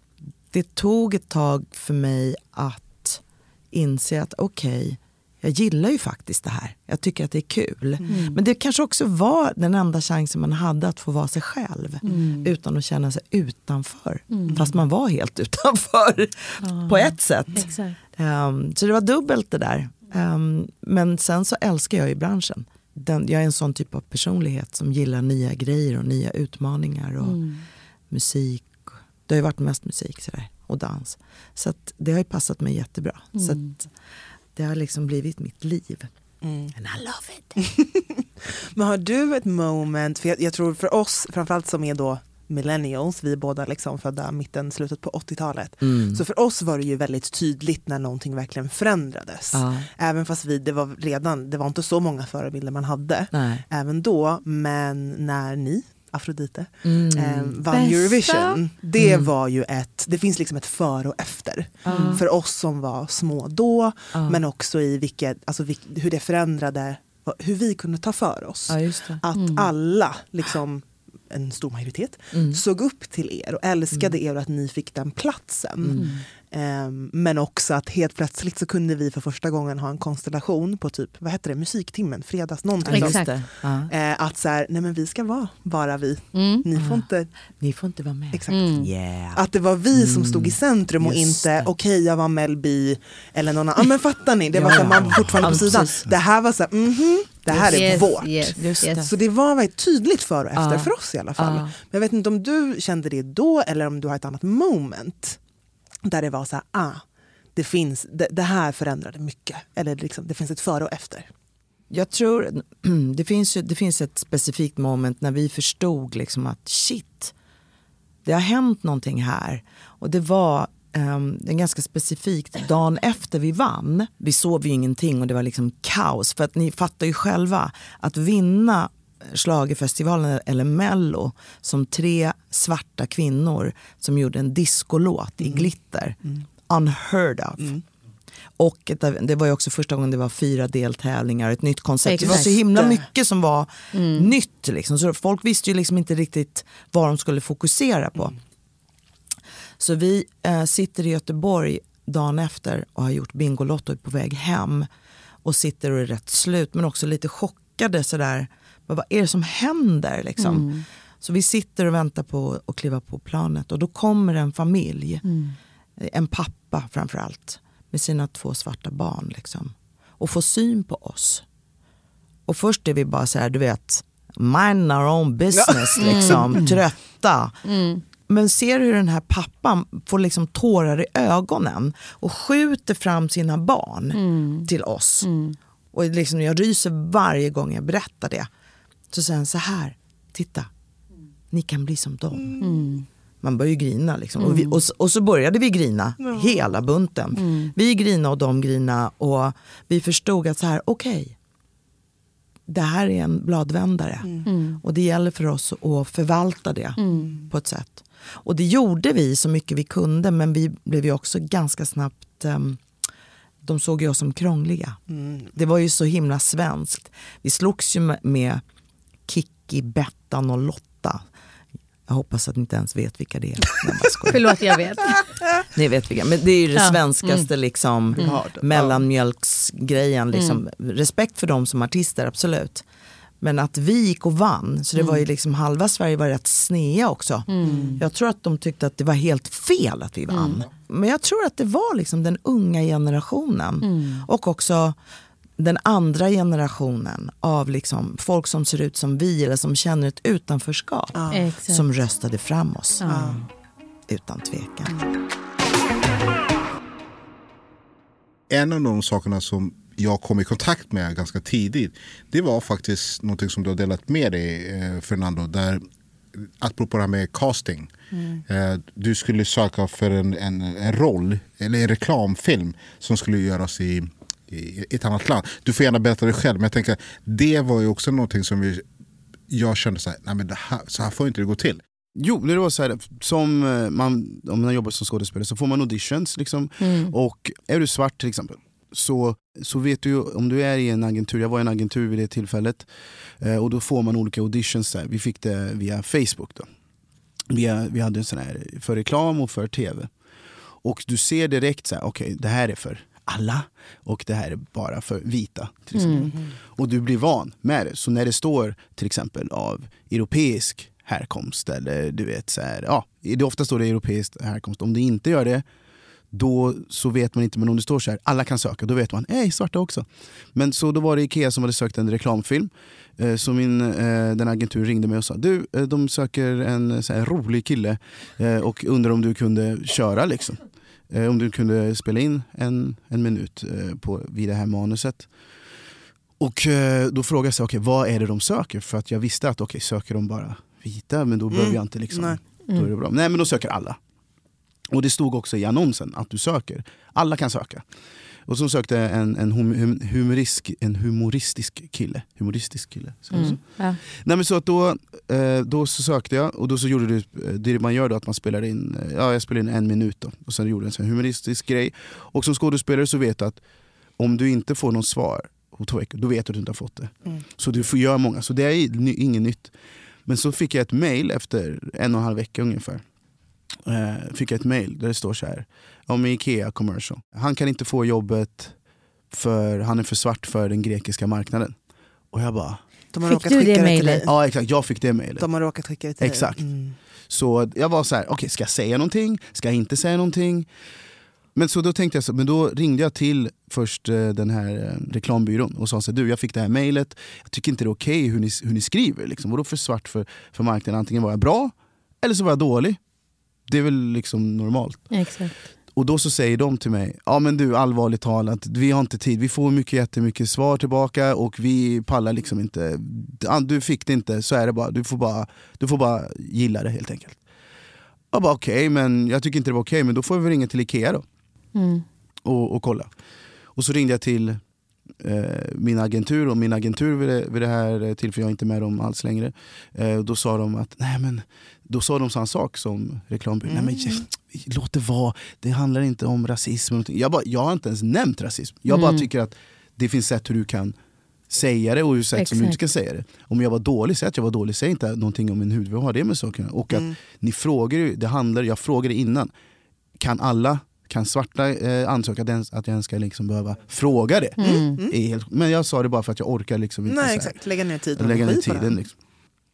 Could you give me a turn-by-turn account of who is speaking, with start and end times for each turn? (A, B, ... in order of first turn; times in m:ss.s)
0:00.5-0:27.4 A
0:08.1-0:08.4 B
0:12.0-0:12.5 B
0:14.3-0:14.6 B
0:16.6-0:18.0 B
0:27.2-0:27.6 B
0:28.1-0:33.9 A
0:33.3-0:33.7 B
0:34.5-0:36.1 A
0:36.4-0:36.7 C
0:36.7-0:37.6 A
0:37.6-1:23.3 C
0:45.8-0:46.2 A
0:49.5-0:49.9 A
0:53.3-0:53.6 A
0:56.8-0:57.6 A
0:57.7-0:58.6 B
0:59.0-0:59.3 A
1:01.8-1:02.2 A
1:01.9-1:02.2 B
1:04.1-1:04.4 A
1:08.7-1:09.2 A
1:09.4-1:09.7 B
1:12.3-1:12.6 A
1:15.8-1:16.2 A
1:22.8-1:23.9 A
1:22.9-1:23.3 B
1:23.9-1:27.3 C
1:26.3-1:26.6 B
1:26.7-1:27.0 A
1:27.6-1:29.4 A
1:28.3-1:28.8 C
1:28.5-1:28.9 B
1:29.3-1:45.4 C
1:29.9-1:31.7 A
1:34.5-1:36.1 A
1:37.5-1:39.1 A
1:37.6-1:39.0 B
1:40.5-1:41.7 A
1:46.0-1:51.3 C
1:51.9-1:57.3 A
1:58.2-2:17.8 A
2:18.6-2:28.3 A
2:22.0-2:22.6 B
2:22.2-2:23.0 C
2:23.9-2:24.3 B
2:29.8-2:34.9 A
2:35.4-2:45.2 A
2:40.4-2:40.8 B
2:45.2-2:45.6 B
2:46.0-2:51.4 A
2:52.5-2:57.6 A
2:55.5-2:56.5 C
2:56.0-2:56.8 B
2:57.6-2:58.0 B
2:58.3-3:05.3 A
3:04.1-3:04.7 B
3:05.2-3:05.6 B
3:05.9-3:08.5 A
3:09.1-3:10.7 A
3:11.5-3:12.6 A
3:12.6-3:13.1 B
3:13.4-3:21.3 A
3:14.4-3:14.8 B
3:17.4-3:17.7 B
3:22.7-3:32.8 A
3:24.4-3:24.8 B
3:27.0-3:27.4 B
3:33.6-3:35.0 A
3:35.1-3:35.5 C
3:35.5-3:38.6 A
3:39.3-3:41.2 A
3:42.1-3:44.5 A
3:44.3-3:45.2 B
3:45.7-3:52.8 A
3:46.7-3:47.5 B
3:48.2-3:49.0 D
3:50.3-3:50.6 B
3:53.4-4:05.0 A
3:55.0-3:55.2 B
3:57.5-3:58.0 B
3:57.6-3:58.0 C
4:00.3-4:00.6 B
4:03.8-4:04.3 B
4:05.6-4:13.0 A
4:11.1-4:11.4 C
4:11.3-4:11.8 B
4:13.0-4:13.4 B
4:13.0-4:13.4 C
4:14.1-4:14.9 A
4:18.5-4:25.8 E
4:26.4-4:27.9 E
4:28.1-4:28.4 C
4:28.5-4:38.8 E
4:39.5-4:41.8 E
4:42.2-4:52.9 D
4:46.8-4:47.1 B
4:53.4-4:56.7 D
4:57.5-5:00.1 D
5:00.8-5:15.6 D
5:05.9-5:06.3 B
5:16.3-5:35.3 D
5:36.4-5:44.0 D
5:41.5-5:42.4 C
5:44.9-5:47.8 D
5:48.4-6:03.6 D
5:53.3-5:54.0 B
6:04.2-6:09.7 D
6:10.2-6:13.0 D
6:13.8-6:18.8 D
6:19.3-6:21.8 D
6:22.3-6:22.8 D
6:23.1-6:24.3 C
6:23.2-6:24.2 B
6:24.2-6:25.5 D
6:25.4-6:27.0 C
6:26.2-6:26.7 D
6:27.3-6:30.7 D
6:31.5-6:43.0 D
6:43.7-6:45.2 D
6:45.1-6:45.6 B
6:46.0-6:57.4 D
6:58.3-7:01.2 D
7:01.7-7:02.0 B
7:02.4-7:03.1 D
7:03.8-7:04.6 D
7:05.2-7:21.0 D
7:13.7-7:14.2 C
7:18.9-7:19.3 B
7:21.5-7:29.5 D
7:22.4-7:22.8 B
7:26.9-7:27.2 C
7:30.2-7:37.6 D
7:34.6-7:35.1 C
7:34.6-7:35.0 B
7:37.0-7:39.0 C
7:38.2-7:39.1 D